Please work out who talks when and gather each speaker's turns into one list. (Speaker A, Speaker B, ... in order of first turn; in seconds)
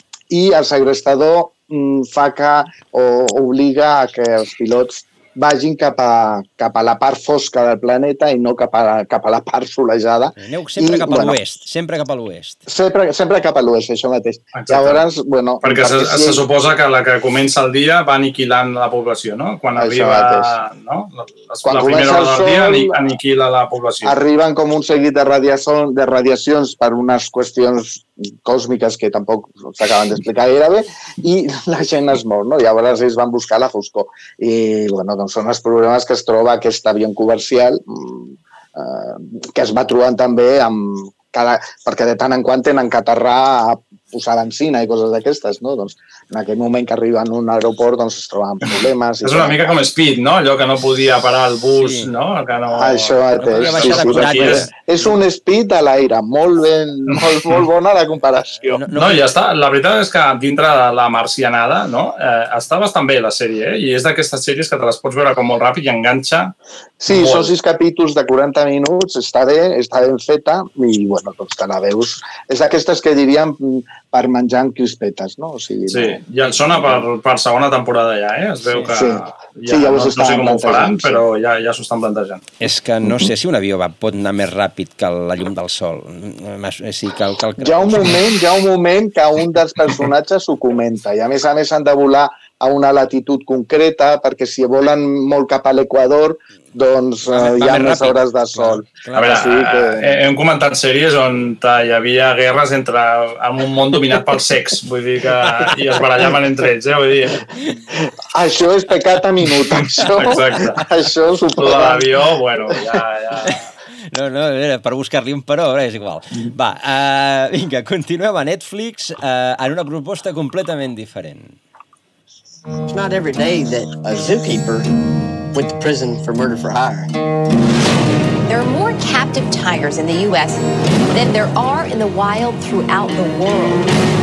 Speaker A: 0.3-11.4, 12.7-16.4, 19.8-20.6, 21.6-23.0, 24.0-49.8, 52.7-58.8, 67.0-76.2, 78.9-81.2, 87.6-100.1, 108.3-112.2
Speaker B: 10.4-12.6, 51.8-52.1, 53.4-54.7, 58.6-59.3, 82.6-88.2, 97.3-99.4, 114.1-121.6
Speaker C: 14.6-15.0, 15.6-24.2, 49.2-54.7, 57.1-57.6, 58.9-66.5, 67.1-67.5, 75.9-82.4, 99.2-107.4, 109.9-110.8, 111.6-113.7
Speaker D: 122.9-124.9, 125.5-127.1
Speaker E: 128.5-130.6, 131.1-133.9